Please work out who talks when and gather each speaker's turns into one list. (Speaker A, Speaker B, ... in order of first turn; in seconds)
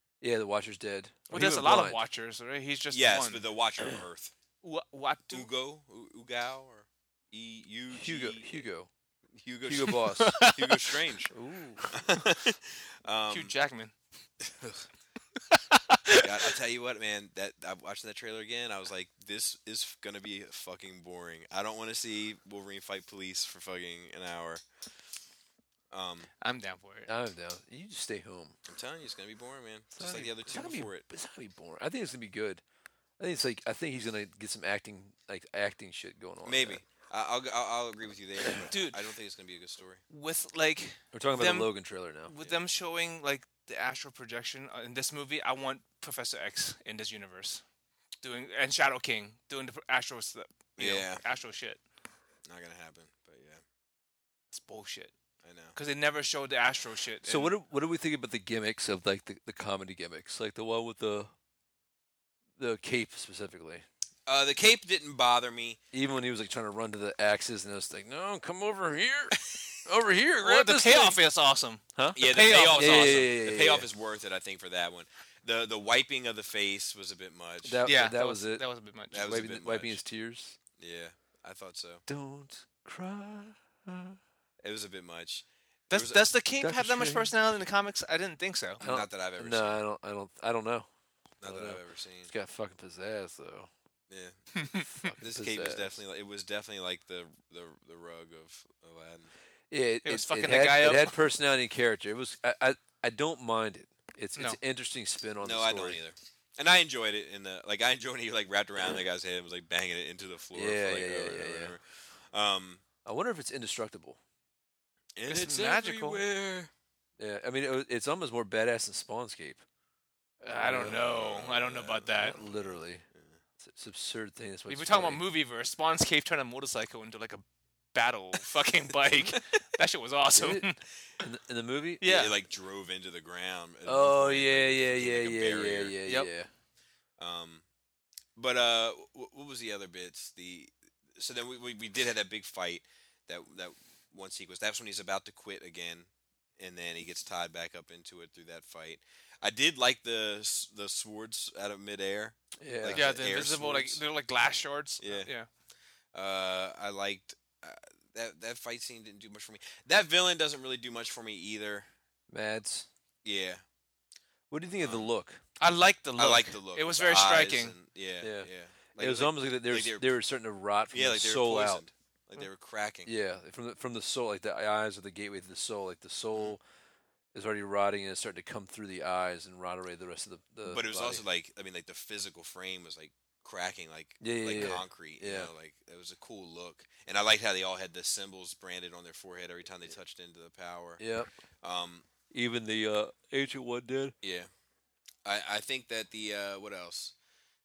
Speaker A: 0.2-2.0, 7.9-8.9, 9.6-10.4, 11.3-11.9, 27.1-28.6, 30.0-32.6, 33.2-36.8, 41.1-42.3, 57.2-61.3, 62.6-63.9, 65.9-71.2, 72.0-73.9, 77.6-80.6, 82.1-84.2, 86.6-87.3, 88.8-90.9, 91.4-93.7, 95.0-96.0, 99.7-106.0, 110.5-111.8, 113.0-114.2, 117.2-119.6, 120.5-121.0, 122.2-123.0, 123.6-125.2, 130.3-130.7, 131.2-132.2, 133.8-136.5, 152.6-153.1, 162.3-162.9, 164.5-165.4, 168.2-171.8, 173.1-176.6, 177.3-181.2, 184.2-185.5, 191.0-191.3, 192.3-194.2
Speaker B: 1.3-3.4, 4.6-5.5, 10.1-11.0, 13.3-13.9, 15.5-16.3, 26.4-27.1, 38.7-39.0, 40.1-41.7, 42.3-47.6, 48.2-51.8, 54.5-55.1, 55.8-57.5, 70.4-73.3, 77.8-79.2, 85.9-88.8, 94.6-95.1, 100.0-101.2, 115.3-116.2, 120.4-122.4, 124.7-130.8, 132.0-132.3, 152.9-155.5, 165.6-167.8
Speaker C: 2.9-4.3, 5.3-8.7, 9.4-11.3, 11.9-13.5, 14.5-14.8, 16.2-24.6, 25.9-26.3, 28.7-31.1, 36.5-40.0, 50.8-51.2, 52.5-53.6, 55.4-55.8, 64.3-65.8, 72.2-77.9, 79.1-80.0, 80.8-82.0, 84.6-86.3, 88.8-89.8, 91.4-92.3, 95.2-99.3, 105.4-112.8, 115.2-116.7, 120.7-123.4, 132.1-136.0, 137.2-137.6, 138.4-154.0, 155.0-155.3, 156.1-161.9, 163.2-163.6, 164.8-165.1, 166.2-170.1, 170.9-173.1, 180.7-191.0, 191.6-192.1, 194.2-194.5, 195.2-197.2